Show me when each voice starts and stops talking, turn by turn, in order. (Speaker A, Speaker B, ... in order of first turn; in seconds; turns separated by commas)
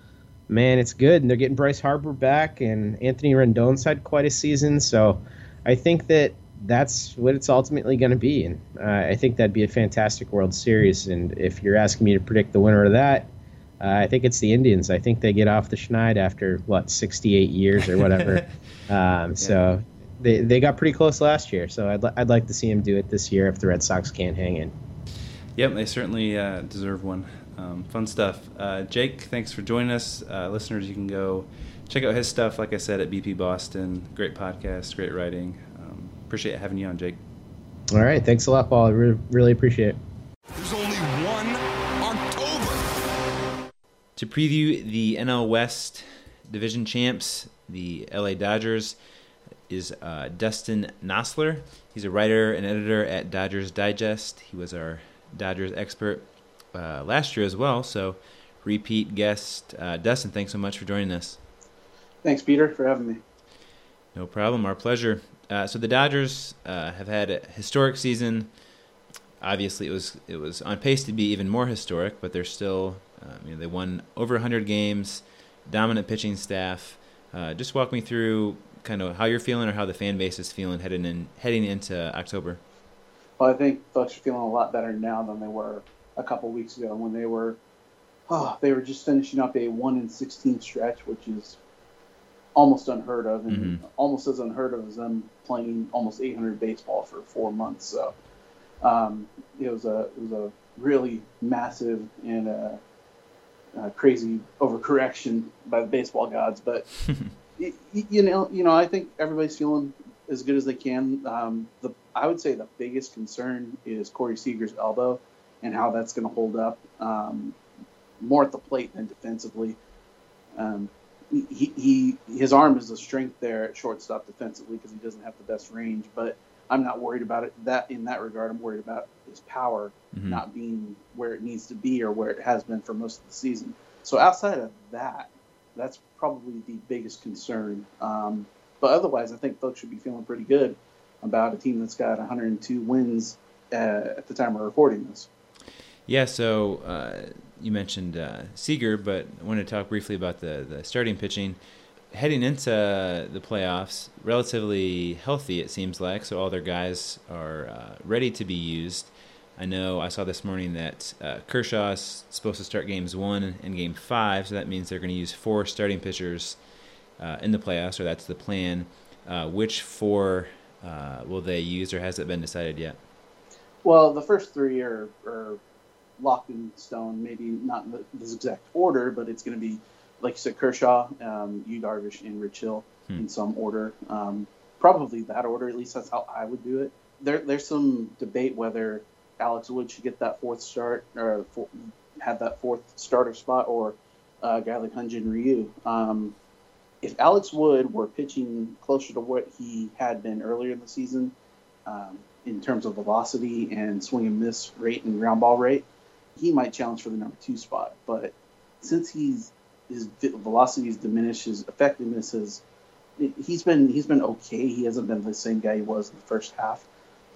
Speaker A: 0.5-13.3, Speaker A: 13.8-24.7, Speaker B: 25.6-37.2, Speaker A: 37.9-40.0, Speaker C: 40.5-43.6, Speaker D: 44.1-49.0, Speaker D: 49.7-61.4, Speaker E: 62.2-63.2, Speaker D: 64.1-68.5, Speaker D: 69.4-82.6, Speaker E: 83.4-87.6, Speaker E: 88.3-91.6, Speaker E: 92.5-98.1, Speaker D: 93.5-93.8, Speaker E: 98.8-102.8, Speaker E: 103.8-106.8, Speaker E: 107.6-117.6, Speaker E: 118.2-119.8, Speaker E: 120.5-145.3, Speaker D: 130.1-130.4, Speaker D: 146.1-166.6, Speaker D: 167.2-173.0, Speaker E: 173.8-175.6, Speaker E: 176.2-196.3, Speaker E: 197.0-201.3, Speaker E: 201.8-212.6, Speaker E: 213.2-216.9